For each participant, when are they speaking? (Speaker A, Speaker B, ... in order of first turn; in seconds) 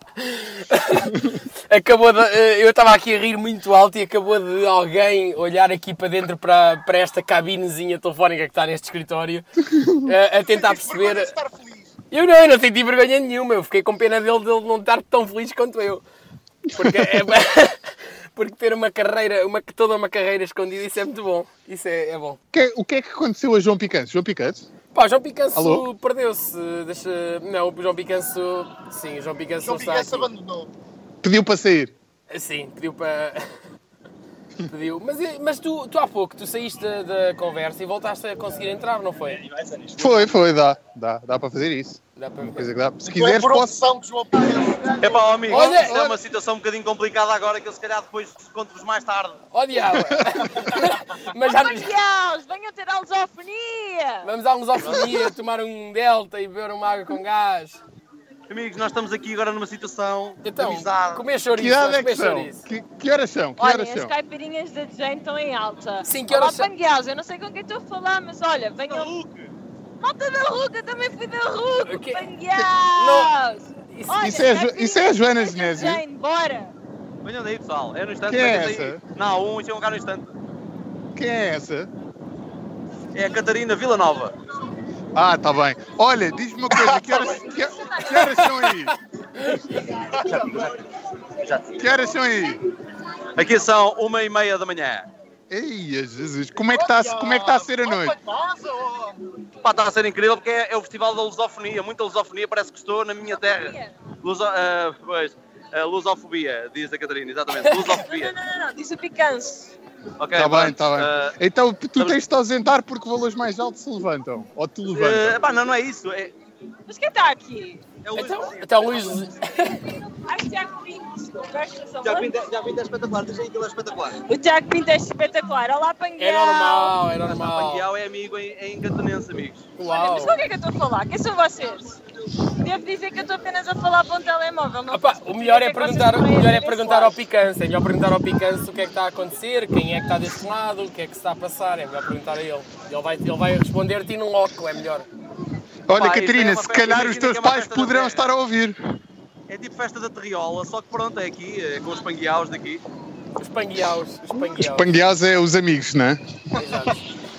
Speaker A: 0.2-11.3, 12.1-16.0, 16.7-22.4, 24.9-30.3, 32.3-33.5, 34.7-39.4, 42.1-42.7, 45.5-46.0, 49.5-51.9, 54.2-57.8, 60.4-62.6, 66.0-66.7, 71.8-72.3, 73.0-73.3, 73.9-74.2, 107.6-107.9, 118.1-119.9, 126.2-127.9, 129.8-130.4, 134.9-145.1, 153.4-154.9, 156.5-157.0
Speaker B: 1.1-1.4, 9.8-10.0, 16.7-17.3, 22.5-24.6, 25.5-25.9, 31.2-31.9, 40.0-43.7, 45.5-46.2, 49.9-50.4, 61.5-64.1, 74.2-76.0, 78.3-79.0, 81.1-81.9, 85.1-88.9, 91.8-92.6, 95.5-98.2, 110.3-115.4, 145.9-148.8, 154.3-156.2
Speaker C: 10.3-11.9, 29.6-30.7, 43.0-45.6, 90.0-90.7, 96.7-99.2
Speaker D: 39.6-39.9, 45.0-49.4, 58.5-61.2, 68.8-69.5, 77.2-80.3, 83.1-84.3, 90.2-90.8, 91.4-91.9, 93.3-95.0, 99.6-108.3, 110.2-111.3, 114.9-116.3, 118.0-119.3, 122.0-124.2, 127.2-129.7, 145.9-148.2, 149.5-152.8
Speaker E: 51.4-54.3, 63.6-69.1, 70.0-76.7, 87.8-88.3, 103.3-103.9, 107.8-109.7, 116.9-117.8, 120.1-122.4, 124.3-127.0, 129.8-132.0, 132.6-137.2